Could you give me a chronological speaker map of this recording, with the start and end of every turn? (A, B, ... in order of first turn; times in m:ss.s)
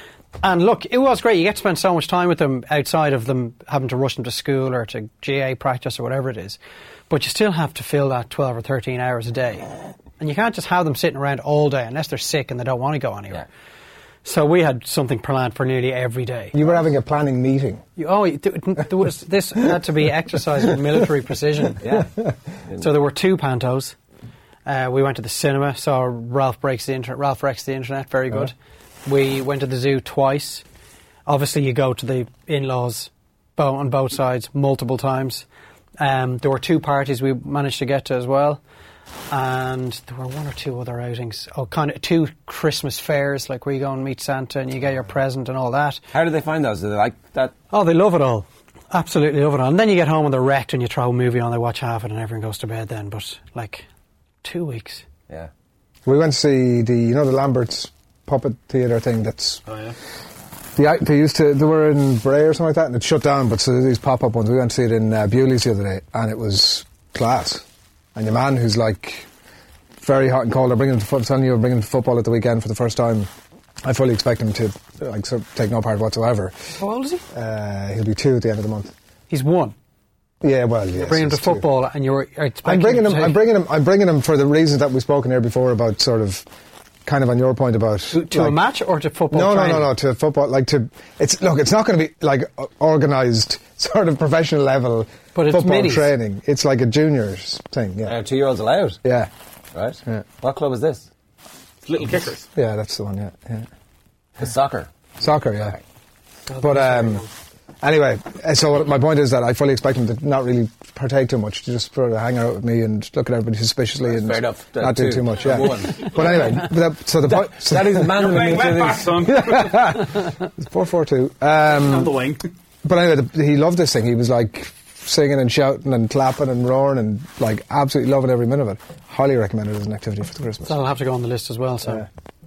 0:00.4-0:06.6 A
0:07.1-0:13.5 A
0:14.2-0:16.6 A
0:16.5-0:17.8 B
0:18.0-0:21.9 A
0:21.8-0:22.2 C
0:22.8-0:24.0 A
0:24.6-0:28.6 A
0:29.1-0:30.6 A
0:31.3-0:35.5 A
0:36.0-0:38.6 A
0:39.3-0:46.0 A
0:46.1-0:47.6 C
0:47.7-0:53.9 A
0:54.4-0:55.0 A
0:56.1-0:59.6 B
0:59.7-1:00.0 D
1:00.8-1:07.6 B
1:08.2-1:09.3 B
1:10.0-1:13.3 B
1:13.8-1:16.7 B
1:16.8-1:17.2 A
1:17.3-1:18.9 B
1:19.3-1:19.8 A
1:20.4-1:21.7 B
1:21.0-1:23.4 A
1:22.6-1:26.5 B
1:27.1-1:28.6 B
1:28.1-1:29.9 A
1:29.3-1:38.2 B
1:35.4-1:36.1 A
1:38.0-1:39.0 C
1:39.0-1:39.3 B
1:39.7-1:41.1 C
1:41.8-1:42.5 D
1:42.5-1:43.7 B
1:44.4-1:44.9 C
1:45.2-1:45.8 B
1:46.5-1:47.3 A
1:46.6-1:47.2 B
1:47.8-1:58.6 B
1:54.1-1:56.6 C
1:57.2-1:59.2 C
1:58.1-2:00.0 D
1:59.2-2:02.2 B
2:01.7-2:02.4 D
2:02.8-2:10.8 B
2:10.7-2:12.1 A